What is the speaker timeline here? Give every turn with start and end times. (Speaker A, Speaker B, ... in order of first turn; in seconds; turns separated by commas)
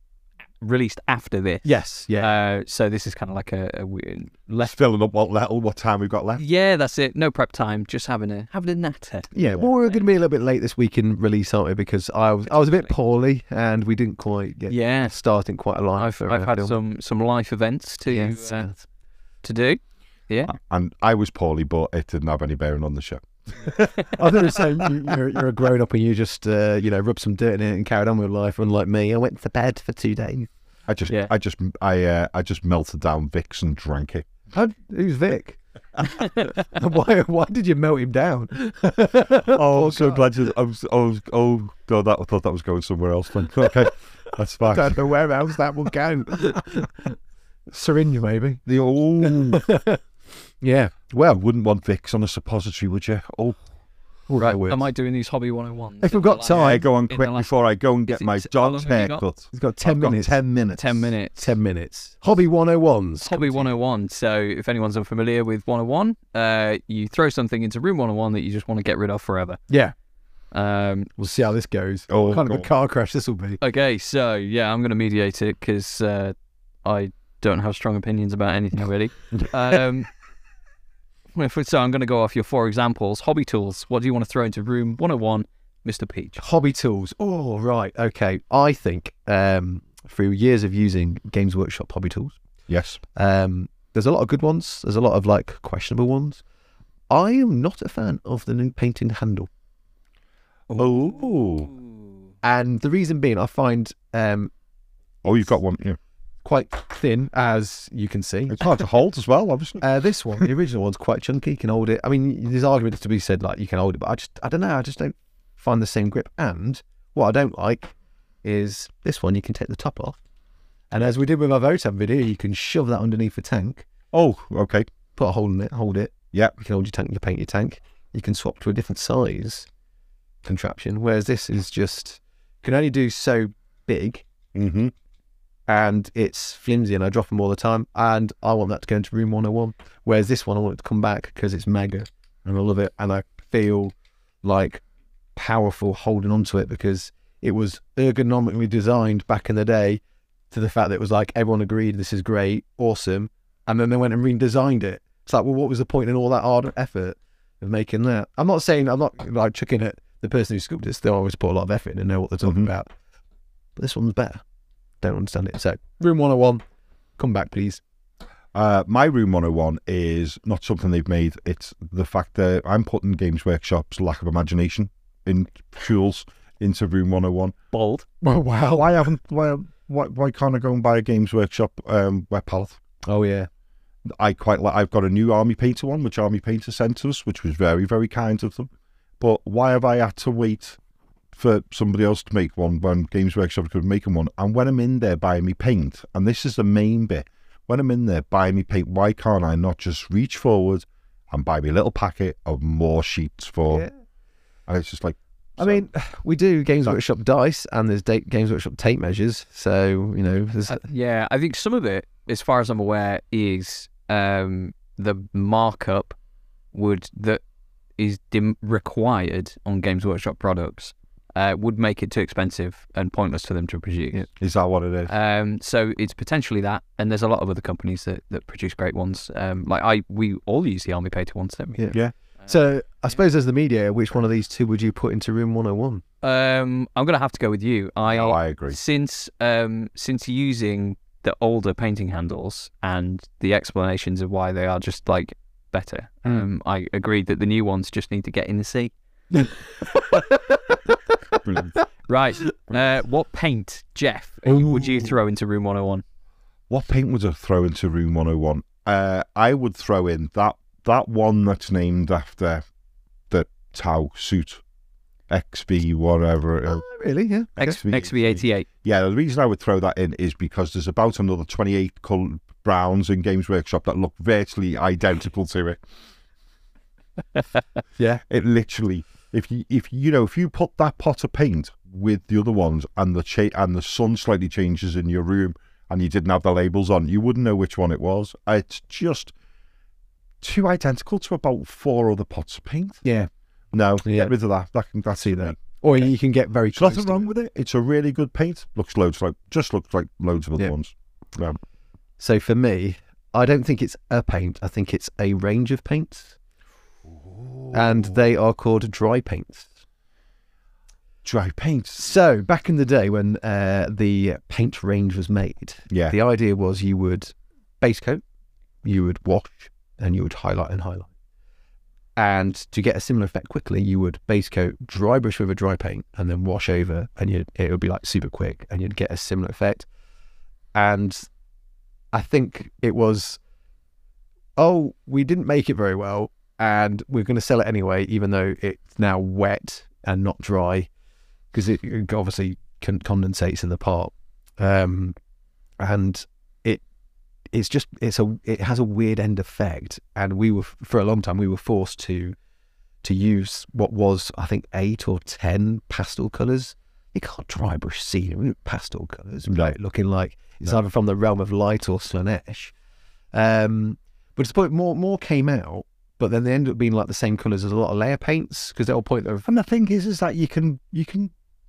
Speaker A: 0.6-4.8, Speaker B: 1.6-2.3, Speaker C: 4.6-6.4, Speaker A: 6.4-9.3, Speaker B: 9.3-16.8, Speaker A: 12.5-12.9, Speaker A: 14.7-15.2, Speaker A: 16.0-18.7, Speaker B: 18.1-18.8, Speaker A: 19.4-20.5, Speaker C: 20.5-24.6, Speaker B: 24.1-30.5, Speaker C: 30.9-34.2, Speaker B: 34.5-40.2, Speaker C: 39.4-45.1, Speaker B: 44.7-47.1, Speaker B: 47.7-48.6, Speaker C: 48.6-49.6, Speaker B: 49.2-50.0, Speaker B: 50.6-51.3, Speaker C: 51.2-53.6, Speaker B: 54.3-54.8, Speaker A: 54.4-57.5, Speaker B: 56.0-56.8, Speaker C: 56.5-61.1, Speaker A: 58.1-59.2, Speaker B: 59.5-60.4, Speaker A: 60.8-61.5, Speaker B: 61.4-63.7, Speaker A: 63.2-69.6, Speaker B: 69.7-69.9, Speaker A: 70.5-71.1, Speaker B: 71.2-73.6, Speaker C: 72.1-72.7, Speaker A: 73.6-80.1, Speaker A: 81.3-86.4, Speaker B: 86.4-92.4, Speaker C: 92.7-93.0, Speaker B: 93.1-96.4, Speaker B: 97.1-99.5, Speaker C: 100.8-101.7, Speaker B: 102.4-104.5, Speaker C: 105.2-106.0, Speaker B: 106.4-108.8, Speaker C: 108.5-110.4, Speaker B: 109.8-120.2, Speaker B: 120.9-123.8, Speaker C: 124.1-124.9, Speaker B: 125.2-129.7, Speaker B: 130.4-134.2, Speaker C: 134.5-134.9, Speaker B: 135.7-144.8, Speaker B: 145.3-162.9, Speaker C: 162.4-162.7, Speaker B: 163.8-164.4, Speaker B: 165.0-166.6, Speaker B: 167.2-167.8, Speaker C: 168.5-177.5, Speaker A: 177.7-178.0, Speaker B: 178.2-178.9, Speaker C: 178.7-182.8, Speaker B: 183.0-183.5, Speaker C: 184.1-188.7, Speaker C: 189.2-190.8, Speaker C: 191.3-203.9, Speaker C: 204.7-205.8, Speaker B: 205.6-210.8, Speaker A: 210.7-216.2, Speaker A: 216.7-217.4, Speaker A: 218.0-224.3, Speaker C: 224.4-225.1, Speaker A: 225.1-231.8, Speaker B: 231.7-236.0, Speaker A: 236.2-248.9, Speaker C: 238.1-238.8, Speaker B: 249.3-251.0, Speaker C: 251.4-251.7, Speaker A: 252.1-256.0, Speaker B: 254.5-254.9, Speaker C: 256.7-262.6, Speaker C: 263.3-264.6, Speaker C: 265.3-266.8, Speaker B: 266.6-267.8, Speaker C: 267.6-275.8, Speaker A: 267.6-268.6, Speaker B: 278.0-278.2, Speaker C: 278.3-289.3, Speaker C: 290.4-293.0, Speaker B: 293.0-293.3, Speaker C: 293.7-295.8, Speaker B: 294.0-294.3, Speaker B: 295.2-297.3, Speaker C: 296.7-301.6, Speaker B: 302.2-306.4, Speaker C: 307.4-308.0, Speaker B: 307.7-309.7, Speaker C: 311.2-312.1, Speaker B: 312.0-318.2, Speaker C: 315.9-316.1, Speaker B: 318.8-321.1, Speaker B: 322.1-329.9, Speaker B: 330.7-331.3, Speaker B: 332.1-333.4, Speaker B: 334.6-340.9, Speaker B: 341.5-345.1, Speaker B: 345.8-346.8, Speaker B: 347.5-352.4, Speaker B: 353.0-362.7, Speaker C: 359.5-359.7, Speaker B: 363.3-369.4, Speaker C: 369.4-371.3